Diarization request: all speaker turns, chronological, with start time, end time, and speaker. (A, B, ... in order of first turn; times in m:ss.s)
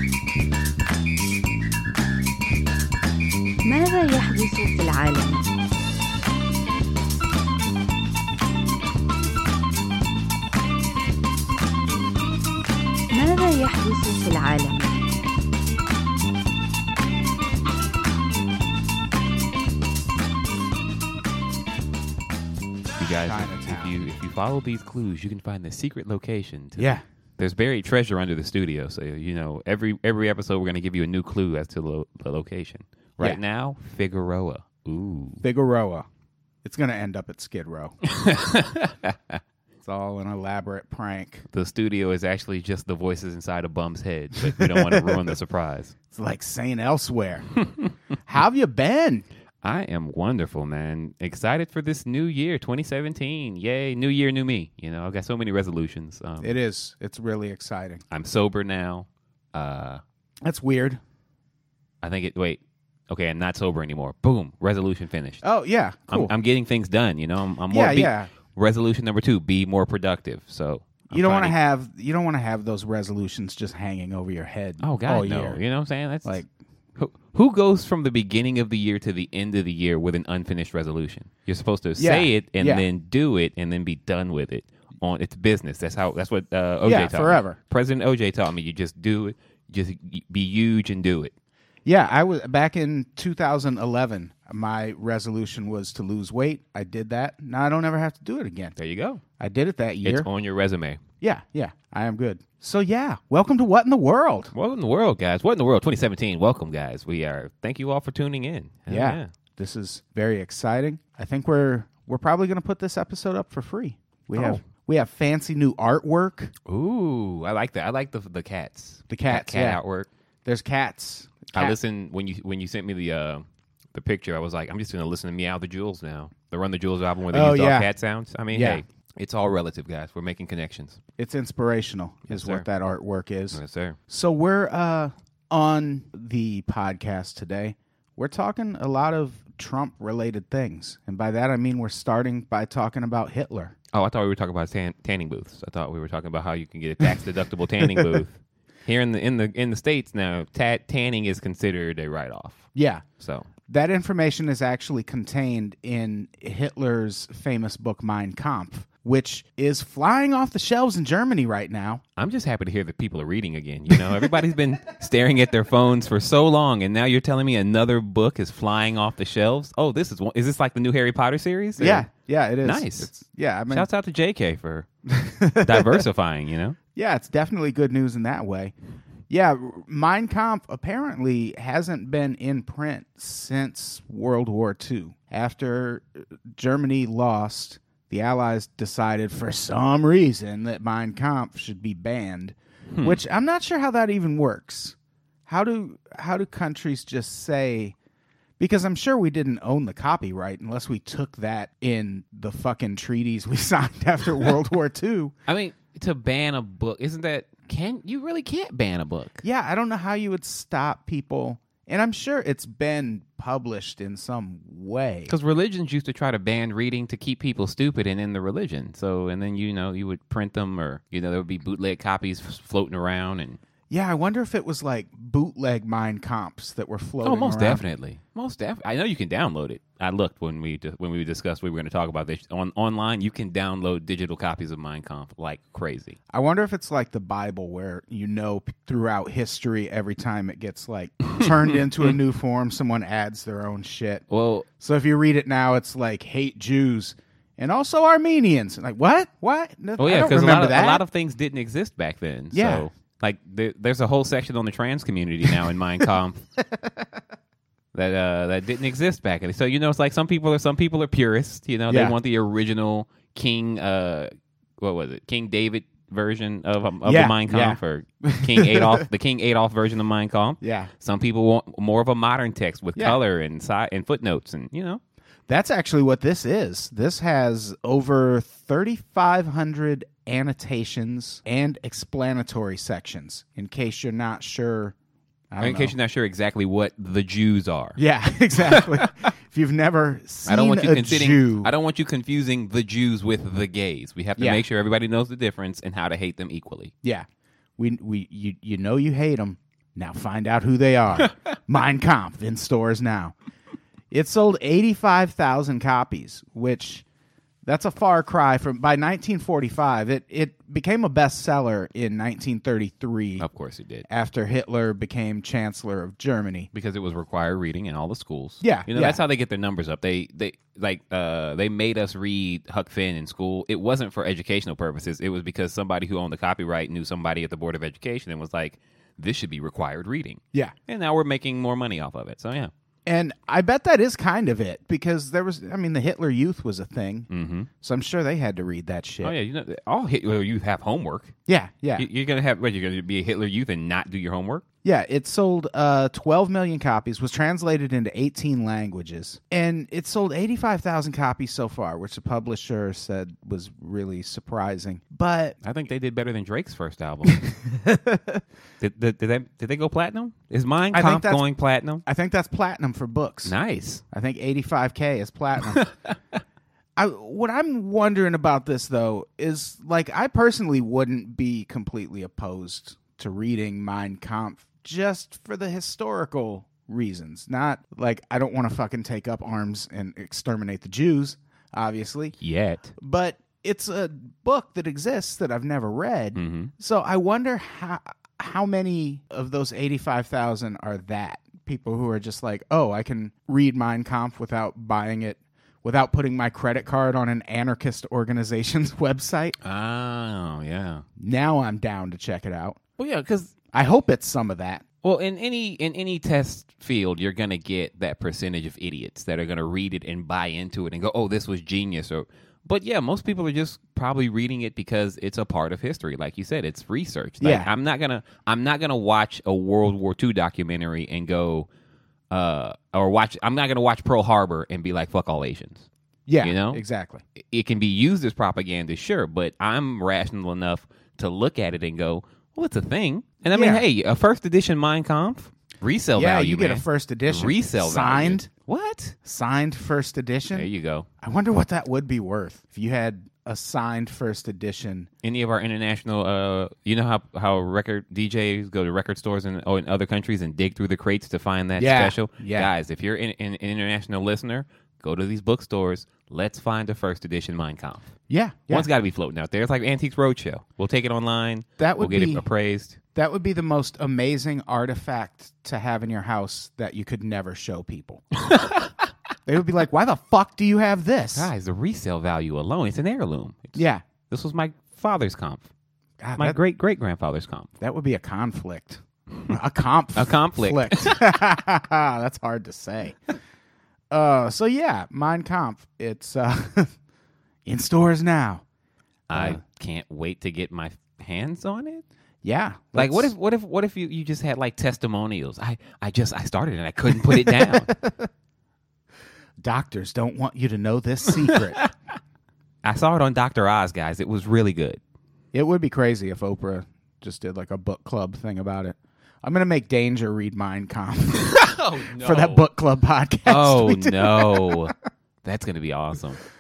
0:03.6-0:05.5 A
0:13.1-0:15.0 A
0:23.0-0:35.4 B
0:23.0-0:24.0 C
0:26.8-0:27.0 C
0:35.4-0:36.1 C
0:36.6-0:38.0 C
0:38.1-0:39.4 B
0:39.8-0:41.4 C
0:41.5-0:46.0 B
0:44.4-0:45.2 C
0:46.1-0:47.5 C
0:48.3-0:49.3 C
0:49.6-0:56.6 B
0:56.4-0:58.0 C
0:58.1-1:00.0 B
1:00.4-1:01.0 C
1:02.0-1:05.4 B
1:05.4-1:06.3 C
1:06.1-1:11.6 B
1:07.7-1:08.3 C
1:11.1-1:15.6 C
1:14.8-1:16.4 B
1:16.2-1:16.5 C
1:17.0-1:31.3 B
1:22.0-1:22.9 C
1:26.8-1:27.6 C
1:31.8-1:38.8 C
1:38.8-1:39.2 B
1:39.4-1:40.3 C
1:40.0-1:41.0 B
1:41.2-1:44.5 C
1:44.5-1:49.3 B
1:48.9-1:56.5 C
1:54.3-1:54.6 B
1:56.7-2:00.1 B
1:59.1-1:59.8 C
2:00.4-2:01.8 C
2:01.5-2:11.0 B
2:07.3-2:07.9 C
2:08.5-2:08.8 C
2:11.2-2:23.7 C
2:12.3-2:12.7 B
2:13.5-2:14.0 B
2:23.9-2:32.7 B
2:32.8-2:33.0 C
2:33.2-2:33.5 B
2:33.7-2:42.0 C
2:42.2-2:52.1 B
2:51.8-2:53.9 C
2:52.6-2:53.1 B
2:53.7-2:54.9 B
2:55.1-2:56.1 C
2:55.6-2:56.8 B
2:57.0-2:58.7 C
2:59.3-3:18.0 C
3:12.9-3:13.2 B
3:18.6-3:25.4 C
3:25.5-3:29.4 B
3:29.4-3:35.3 C
3:35.3-3:43.6 B
3:43.9-3:47.8 C
3:47.2-3:56.2 B
3:56.3-4:04.2 C
4:04.3-4:04.7 B
4:04.8-4:11.0 C
4:10.0-4:16.4 B
4:12.5-4:12.9 C
4:17.9-4:35.0 B
4:21.9-4:22.2 C
4:27.0-4:29.0 C
4:30.6-4:30.9 C
4:35.5-4:45.0 C
4:45.5-4:46.0 C
4:45.6-4:48.0 B
4:48.0-4:51.7 C
4:48.6-4:49.1 B
4:50.5-4:56.9 B
4:54.4-4:54.6 C
4:57.0-5:03.4 C
5:04.1-5:07.0 C
5:07.6-5:13.5 C
5:13.4-5:14.1 B
5:14.1-5:16.7 C
5:16.7-5:32.7 B
5:18.6-5:19.2 C
5:33.1-5:37.3 C
5:37.3-5:37.7 B
5:37.8-5:39.4 C
5:39.2-5:41.3 B
5:41.5-5:42.1 C
5:42.0-5:44.6 B
5:44.8-5:55.6 C
5:55.6-5:57.4 B
5:57.5-5:58.4 C
5:58.8-6:02.0 B
6:00.9-6:01.4 C
6:02.0-6:03.6 C
6:03.4-6:04.0 B
6:04.1-6:05.8 C
6:05.8-6:06.1 B
6:07.0-6:22.4 C
6:22.4-6:22.9 B
6:23.0-6:39.6 C
6:26.4-6:26.7 B
6:39.6-6:41.0 B
6:41.2-6:42.8 C
6:43.0-6:43.5 B
6:43.7-6:44.8 C
6:45.0-7:01.7 B
6:57.4-6:57.7 C
7:02.3-7:05.9 B
7:06.3-7:07.2 C
7:06.4-7:06.8 B
7:07.4-7:19.2 B
7:13.5-7:13.8 C
7:16.1-7:18.5 C
7:19.2-7:20.7 C
7:20.5-7:21.1 B
7:21.2-7:25.1 C
7:25.2-7:38.1 B
7:31.8-7:32.7 C
7:38.3-7:38.9 C
7:38.7-7:43.0 B
7:41.8-7:42.5 C
7:43.2-7:48.2 C
7:48.5-7:48.9 B
7:49.5-7:51.5 C
7:51.3-7:55.7 B
7:53.8-7:54.0 C
7:56.2-7:56.6 C
7:56.4-7:57.7 B
7:57.8-8:03.2 C
8:00.2-8:01.4 B
8:04.1-8:06.9 C
8:07.7-8:08.6 C
8:09.3-8:12.0 B
8:09.3-8:09.6 C
8:12.4-8:13.3 C
8:13.0-8:17.9 B
8:17.3-8:18.3 C
8:19.6-8:21.8 C
8:21.5-8:21.9 B
8:22.8-8:25.0 B
8:25.5-8:35.0 C
8:31.5-8:32.6 B
8:33.5-8:36.4 B